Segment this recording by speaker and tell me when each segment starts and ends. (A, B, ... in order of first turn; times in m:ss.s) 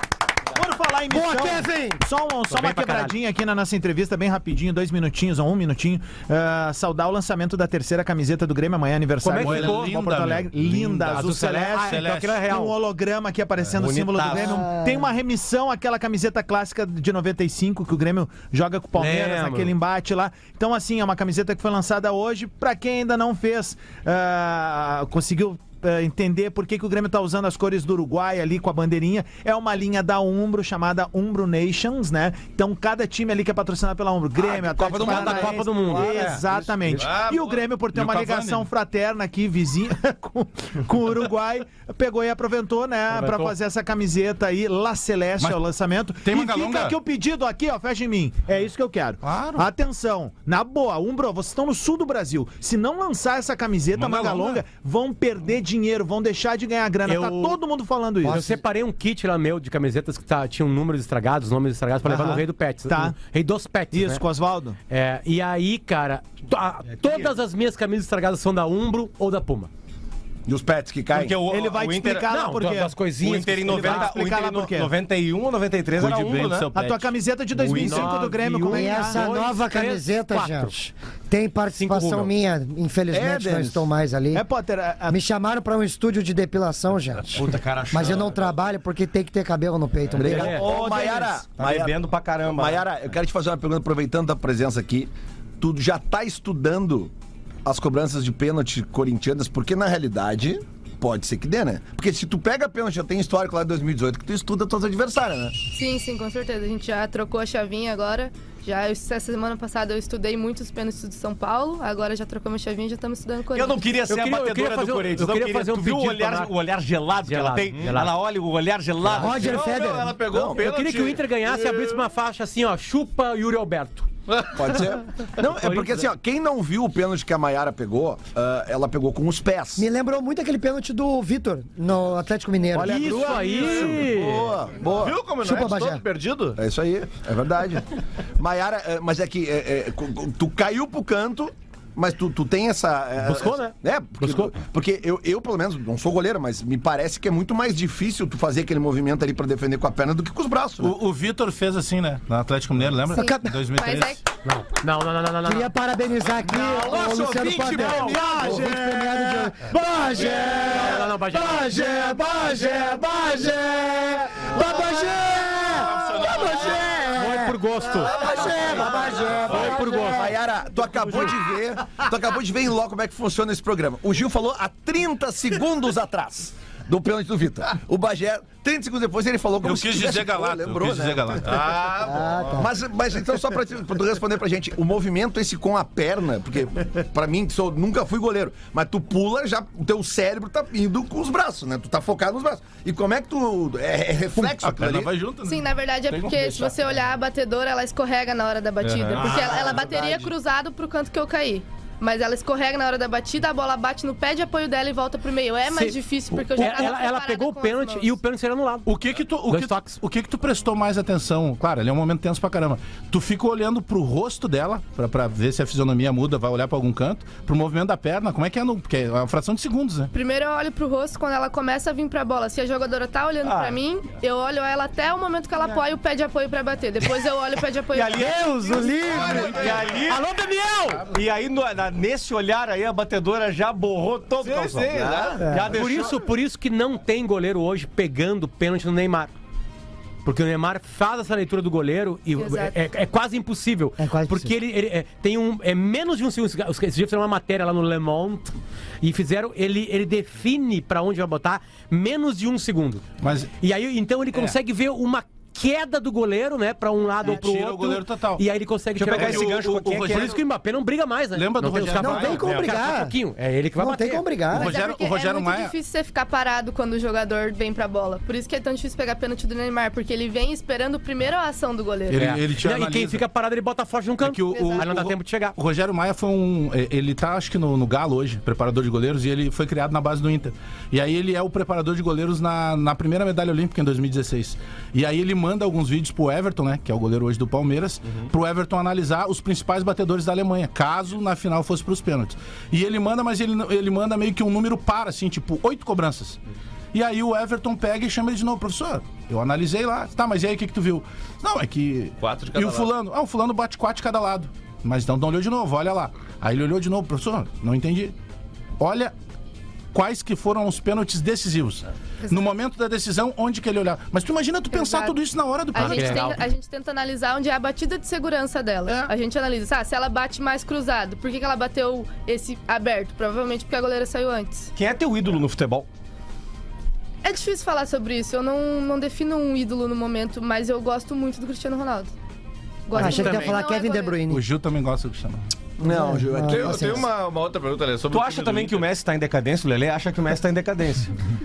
0:00.5-0:58.5 A
0:01.1-0:02.0 B
0:02.5-0:03.1 C
0:09.2-0:09.9 C
0:09.4-0:12.4 D
0:11.1-0:12.8 C
0:13.7-0:14.7 E
0:14.2-0:15.1 B
0:18.9-0:19.7 C
0:34.4-0:36.4 F
0:34.9-0:36.4 C
0:36.9-0:37.6 G
0:37.9-0:38.7 D
0:43.1-0:43.6 C
0:46.2-0:47.0 D
0:49.2-0:49.7 D
0:53.9-0:54.6 D
0:57.0-0:57.6 C
0:58.2-0:58.6 B
0:58.2-1:04.2 C
1:02.0-1:03.2 A
1:03.9-1:04.8 A
1:04.9-1:09.7 C
1:07.0-1:07.3 E
1:10.5-1:11.4 F
1:11.1-1:12.3 E
1:11.5-1:13.0 A
1:12.3-1:14.2 C
1:13.2-1:16.7 E
1:13.6-1:14.9 A
1:16.0-1:17.0 D
1:16.7-1:19.2 A
1:17.5-1:18.2 E
1:17.7-1:20.7 C
1:18.7-1:24.5 B
1:21.7-1:22.3 C
1:23.1-1:23.9 F
1:24.3-1:25.2 A
1:25.1-1:30.8 B
1:27.3-1:28.5 E
1:30.2-1:32.8 E
1:30.2-1:31.9 F
1:30.2-1:30.7 C
1:32.4-1:37.1 F
1:37.6-1:45.6 F
1:45.7-1:53.9 H
1:53.5-1:59.6 E
1:54.1-1:56.5 C
1:57.2-1:58.2 C
1:59.1-2:00.2 B
1:59.1-2:02.0 G
2:00.3-2:00.6 F
2:00.5-2:04.1 C
2:04.3-2:04.8 G
2:04.5-2:09.8 F
2:05.4-2:06.0 C
2:09.8-2:13.4 B
2:12.7-2:14.5 C
2:12.8-2:16.6 G
2:13.6-2:15.2 F
2:15.4-2:16.0 B
2:16.6-2:30.9 F
2:23.2-2:24.5 C
2:30.8-2:34.2 D
2:33.1-2:34.2 H
2:33.1-2:33.6 B
2:34.4-2:35.7 C
2:35.4-2:50.4 B
2:36.4-2:38.9 F
2:37.6-2:38.2 C
2:40.6-2:41.7 C
2:45.9-2:46.8 G
2:47.1-2:48.2 C
2:48.1-2:49.3 F
2:48.4-2:49.7 G
2:49.4-2:50.3 C
2:50.2-3:01.6 F
2:59.6-3:01.8 D
3:01.4-3:02.6 G
3:02.0-3:02.7 B
3:02.5-3:15.2 F
3:14.3-3:16.7 D
3:15.4-3:28.2 H
3:18.8-3:19.4 G
3:19.2-3:19.9 D
3:19.3-3:20.1 F
3:25.7-3:30.0 C
3:28.8-3:40.1 D
3:40.1-3:48.4 H
3:43.4-3:43.8 E
3:47.9-3:50.2 E
3:48.4-3:49.6 B
3:49.1-3:49.9 D
3:49.3-3:49.8 G
3:50.0-3:51.1 C
3:51.1-3:56.2 E
3:54.4-3:55.8 G
3:55.7-3:59.3 C
4:00.2-4:13.0 C
4:02.4-4:02.8 H
4:04.0-4:04.5 B
4:13.2-4:13.5 D
4:13.6-4:24.3 C
4:17.2-4:18.4 D
4:19.0-4:20.4 E
4:19.1-4:20.4 D
4:21.3-4:22.6 D
4:21.9-4:23.2 B
4:22.4-4:22.8 E
4:23.8-4:24.7 B
4:24.5-4:25.7 D
4:24.6-4:32.3 H
4:32.1-4:33.2 D
4:32.2-4:35.5 C
4:34.2-4:56.4 D
4:34.5-4:34.8 H
4:56.9-5:08.1 D
5:02.2-5:02.9 G
5:08.8-5:09.1 D
5:09.9-5:16.3 D
5:12.2-5:12.5 H
5:14.7-5:15.2 H
5:15.7-5:24.7 H
5:15.8-5:16.4 C
5:18.9-5:19.1 D
5:24.7-5:25.9 E
5:27.2-5:32.1 H
5:32.9-5:34.2 H
5:32.9-5:33.6 D
5:32.9-5:34.4 B
5:34.2-5:35.4 D
5:35.8-5:37.1 F
5:35.8-5:37.1 B
5:36.3-5:38.9 G
5:38.1-5:41.1 E